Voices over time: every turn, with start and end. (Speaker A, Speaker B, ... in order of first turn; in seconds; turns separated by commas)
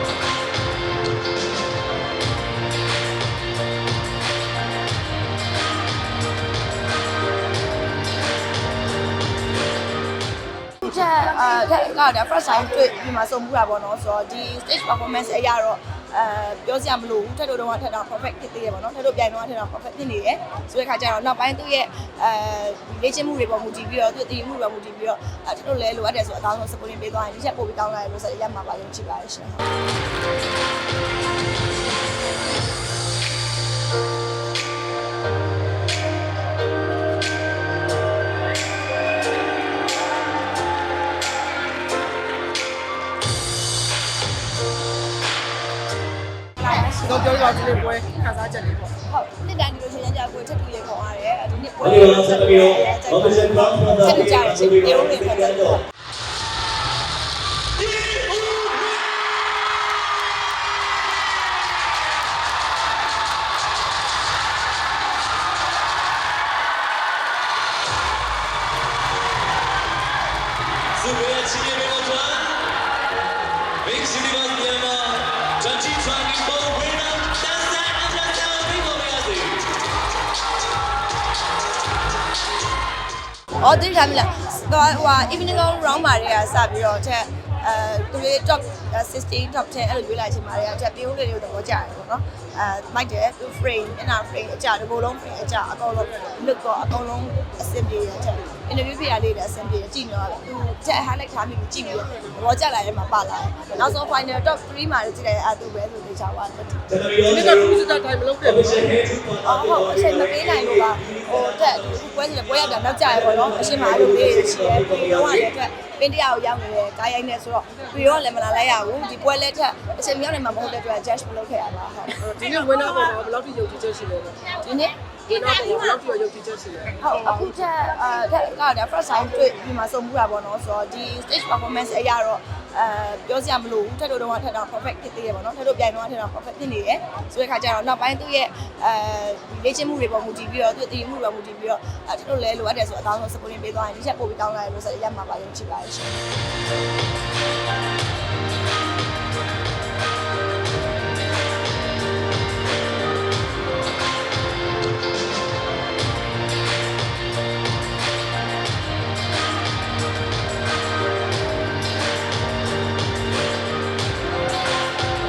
Speaker A: 10.8-29.6, Speaker A: 46.6-47.8, Speaker B: 47.0-48.9, Speaker A: 49.0-55.8, Speaker C: 51.8-55.5, Speaker C: 71.0-72.6, Speaker C: 73.8-79.6, Speaker A: 83.6-106.9, Speaker C: 106.9-107.5, Speaker B: 107.2-109.0, Speaker C: 108.6-111.3, Speaker A: 109.4-122.3, Speaker C: 113.4-115.3, Speaker B: 122.2-124.6, Speaker A: 124.6-124.9, Speaker B: 125.3-127.0, Speaker A: 127.0-146.2